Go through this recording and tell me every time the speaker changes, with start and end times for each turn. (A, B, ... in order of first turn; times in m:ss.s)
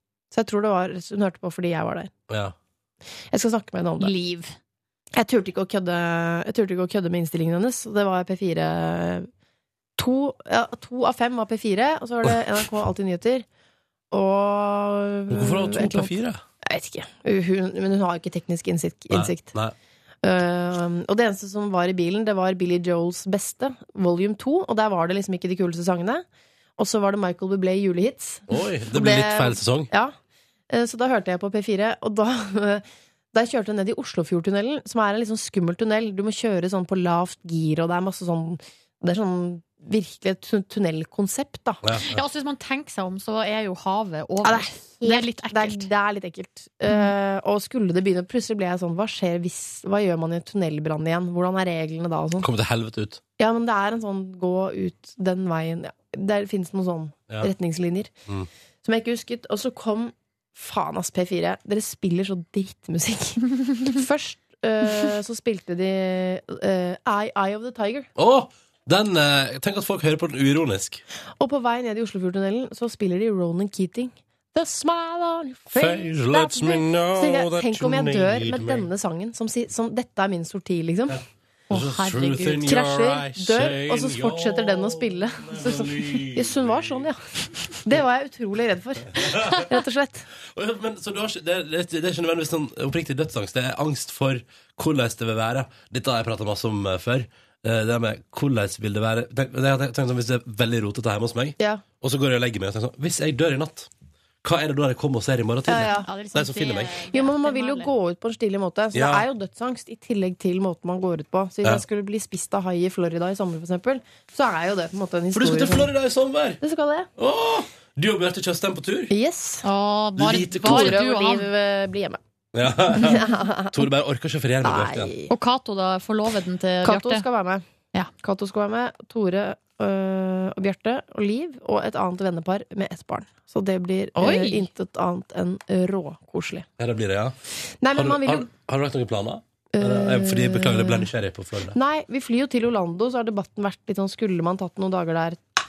0:00.3-0:02.1 A
0:02.3-0:02.6 B
0:03.3-0:04.1 A
0:04.0-0:04.5 C
0:05.2-0:09.3 A
0:10.0-0:13.5 A
0:14.1-0:16.1 A
0:15.3-0:16.4 B
0:16.6-0:19.6 A
0:19.1-0:19.8 B
0:20.2-0:26.2 A
0:26.8-0:30.1 A
0:28.5-0:29.9 B
0:30.7-0:41.8 A
0:41.8-0:42.2 B
0:42.1-0:45.9 C
0:44.4-0:52.5 A
0:52.4-0:53.2 B
0:53.4-0:58.1 A
0:58.8-1:08.1 A
1:08.2-1:11.0 B
1:11.4-1:21.2 A
1:15.7-1:18.9 B
1:21.1-1:27.1 B
1:21.7-1:22.7 C
1:22.6-1:30.3 A
1:29.1-1:29.7 B
1:30.5-1:43.9 B
1:41.6-1:41.9 A
1:44.4-1:47.0 B
1:45.7-1:46.1 A
1:45.9-1:47.9 C
1:47.1-1:55.9 A
1:48.9-1:49.3 B
1:55.3-1:56.6 B
1:56.6-1:57.1 A
1:57.2-1:59.1 B
1:59.1-1:59.6 A
1:59.6-2:01.5 C
2:00.2-2:01.0 B
2:00.5-2:02.2 A
2:02.5-2:05.1 B
2:02.9-2:03.8 A
2:04.6-2:05.3 A
2:05.3-2:07.3 C
2:06.8-2:07.6 A
2:08.2-2:16.7 A
2:14.2-2:14.7 C
2:16.8-2:17.4 B
2:17.8-2:18.5 A
2:17.9-2:21.8 B
2:19.7-2:21.1 A
2:21.7-2:25.4 A